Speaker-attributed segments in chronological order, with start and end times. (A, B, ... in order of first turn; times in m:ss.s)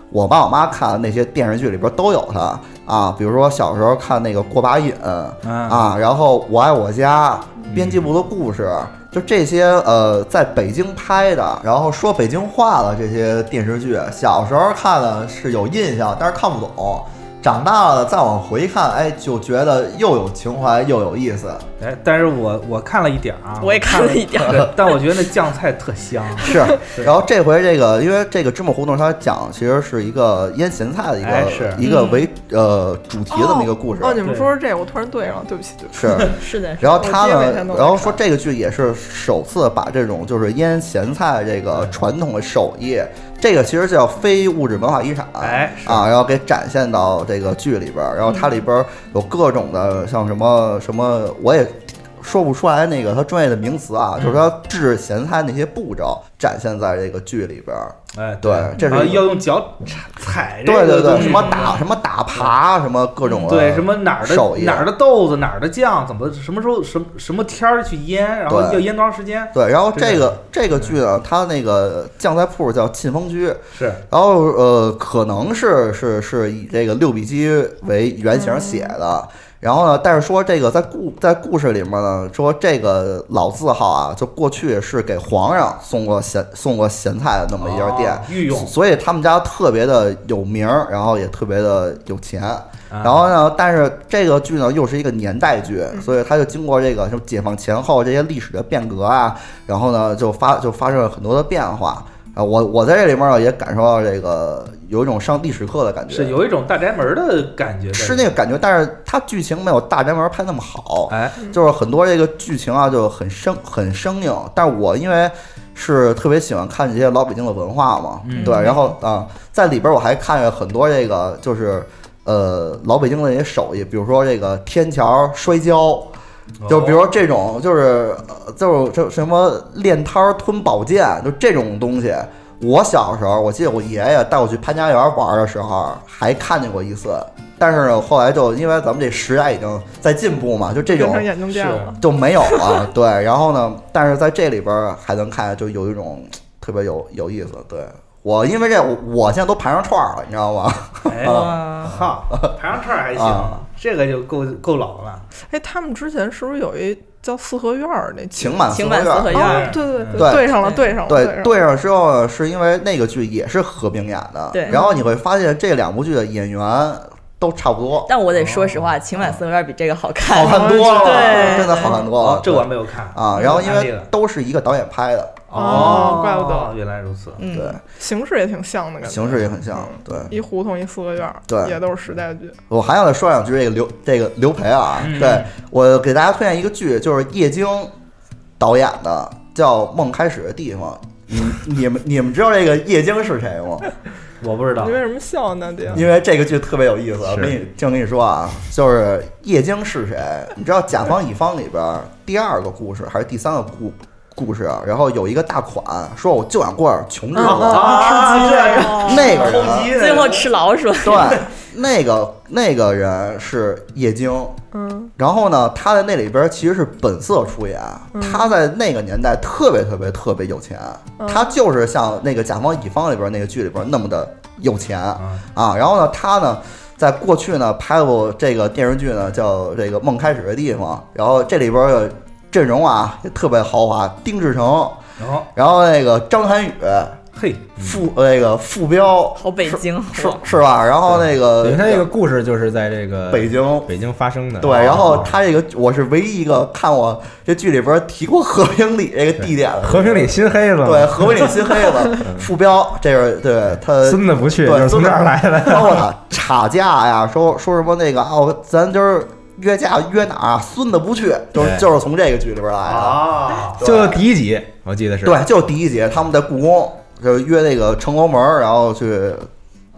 0:00.1-0:21.7 A
0:05.4-0:05.9 B
0:07.7-0:08.0 B
0:21.8-0:27.1 B
0:23.6-0:25.0 C
0:26.4-0:34.2 A
0:31.2-0:31.8 B
0:31.8-0:32.3 C
0:33.3-0:36.2 D
0:34.2-0:34.5 B
0:35.9-0:59.3 A
0:36.3-0:37.0 C
0:36.9-0:38.2 D
0:45.4-0:46.0 B
0:54.2-0:54.4 B
0:58.1-1:01.8 B
1:00.6-1:04.9 A
1:01.1-1:01.8 C
1:03.2-1:03.5 C
1:03.5-1:11.0 B
1:08.5-1:08.8 A
1:09.5-1:46.4 A
1:13.7-1:14.0 B
1:18.4-1:18.9 D
1:27.6-1:28.7 B
1:32.9-1:33.3 B
1:46.1-1:48.3 B
1:47.9-2:06.1 A
1:51.1-1:51.4 B
1:58.2-1:58.7 B
1:58.4-1:58.8 D
2:06.6-2:07.0 B
2:06.7-2:21.3 A
2:20.8-2:22.0 D
2:21.5-2:21.9 B
2:22.0-2:31.2 A
2:31.0-2:35.3 B
2:31.2-2:32.0 C
2:33.1-2:33.6 A
2:35.5-2:38.6 D
2:38.3-2:39.4 A
2:38.7-2:40.9 C
2:39.3-2:41.5 D
2:39.4-2:40.2 B
2:40.1-2:48.1 A
2:44.5-2:44.8 C
2:44.7-2:45.1 D
2:48.1-2:52.0 C
2:48.3-2:48.9 B
2:50.2-2:55.9 A
2:50.3-2:52.0 D
2:52.1-2:54.1 B
2:55.5-2:57.4 B
2:55.5-2:56.7 D
2:57.4-2:57.8 C
2:57.5-2:57.8 A
2:58.0-3:02.6 D
2:59.0-3:00.4 A
3:01.5-3:01.8 A
3:02.7-3:07.9 A
3:05.0-3:05.5 B
3:08.6-3:13.8 A
3:14.4-3:15.0 B
3:14.8-3:16.1 D
3:15.9-3:28.1 A
3:17.3-3:17.6 E
3:27.4-3:29.5 D
3:27.4-3:30.5 B
3:27.7-3:31.4 C
3:29.0-3:29.9 A
3:31.0-3:34.6 A
3:34.7-3:35.1 D
3:35.2-3:55.0 A
3:38.1-3:38.5 D
3:41.2-3:41.5 D
3:45.2-3:45.4 B
3:55.2-3:55.5 B
3:55.5-3:57.2 A
3:57.3-3:58.0 B
3:57.8-4:02.1 A
3:59.4-4:00.4 C
4:01.6-4:05.3 E
4:03.3-4:03.9 A
4:04.6-4:10.3 A
4:04.6-4:05.2 B
4:09.4-4:11.6 E
4:10.8-4:24.2 A
4:12.2-4:12.5 E
4:14.0-4:16.0 E
4:21.6-4:21.8 E
4:22.8-4:23.8 B
4:23.8-4:25.4 E
4:25.2-4:29.5 A